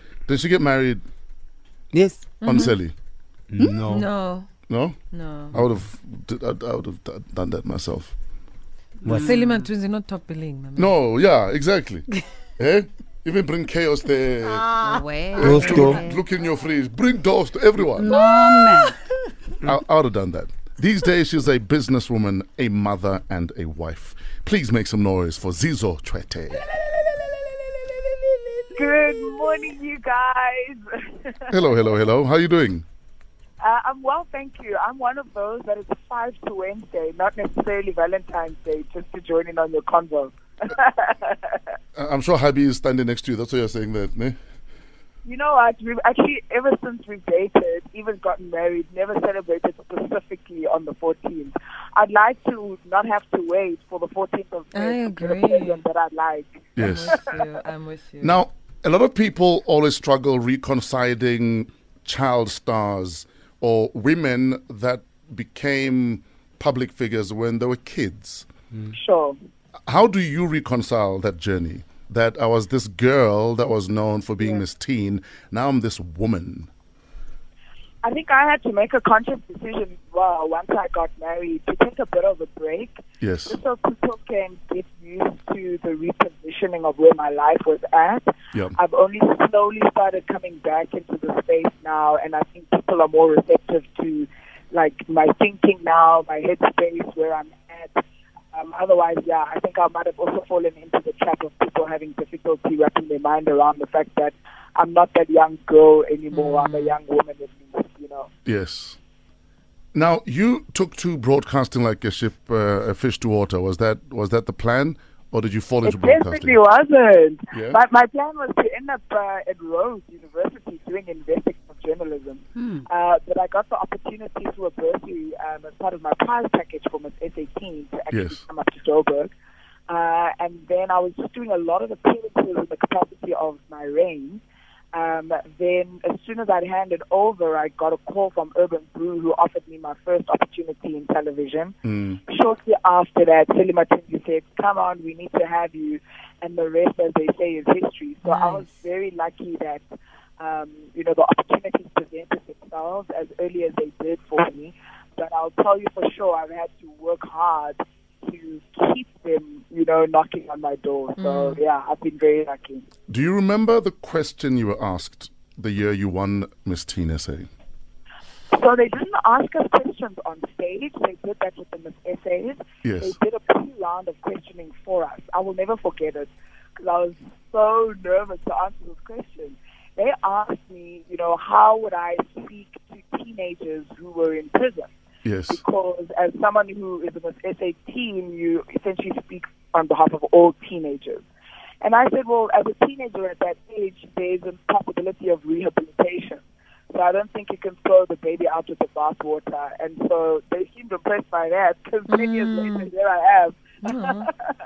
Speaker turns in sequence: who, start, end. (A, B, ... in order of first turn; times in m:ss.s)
0:00.3-0:01.0 A
0:01.9-0:02.2 B
0:02.4-0:02.7 C
0:02.4-0:02.9 A
0:03.5-0:04.1 B
0:03.8-0:04.5 C
0:04.7-0:05.0 A
0:05.1-0:05.6 C
0:05.5-0:08.1 A
0:09.0-0:09.4 B
0:09.1-0:10.9 C
0:10.8-0:12.0 A
0:12.6-0:14.8 A
0:14.8-0:16.2 D
0:15.4-0:16.0 B
0:15.4-0:18.1 A
0:15.6-0:16.0 C
0:17.9-0:19.0 D
0:19.6-0:26.6 A
0:28.7-0:31.7 E
0:31.5-0:32.8 A
0:33.6-0:41.7 E
0:42.0-0:44.4 A
0:45.2-0:57.3 E
0:54.7-0:55.8 C
0:56.8-0:57.1 A
0:56.8-0:58.4 C
0:58.2-1:08.5 A
1:08.9-1:09.4 E
1:09.9-1:16.7 A
1:18.0-1:38.0 E
1:23.2-1:23.6 A
1:38.5-1:48.3 E
1:46.3-1:47.0 C
1:48.4-1:49.0 A
1:49.9-1:56.6 A
1:55.8-2:09.3 E
1:57.5-1:57.8 A
2:02.6-2:02.8 D
2:08.1-2:08.4 A
2:09.9-2:14.4 E
2:14.9-2:29.8 E
2:21.8-2:22.2 A
2:28.2-2:28.7 C
2:30.4-2:42.8 E
2:41.2-2:41.6 C
2:43.1-2:47.5 A
2:48.5-3:04.9 E
2:52.8-2:53.2 A
3:05.2-3:05.6 A
3:05.5-3:11.2 E
3:11.8-3:24.5 E
3:22.1-3:22.9 C
3:23.8-3:24.3 C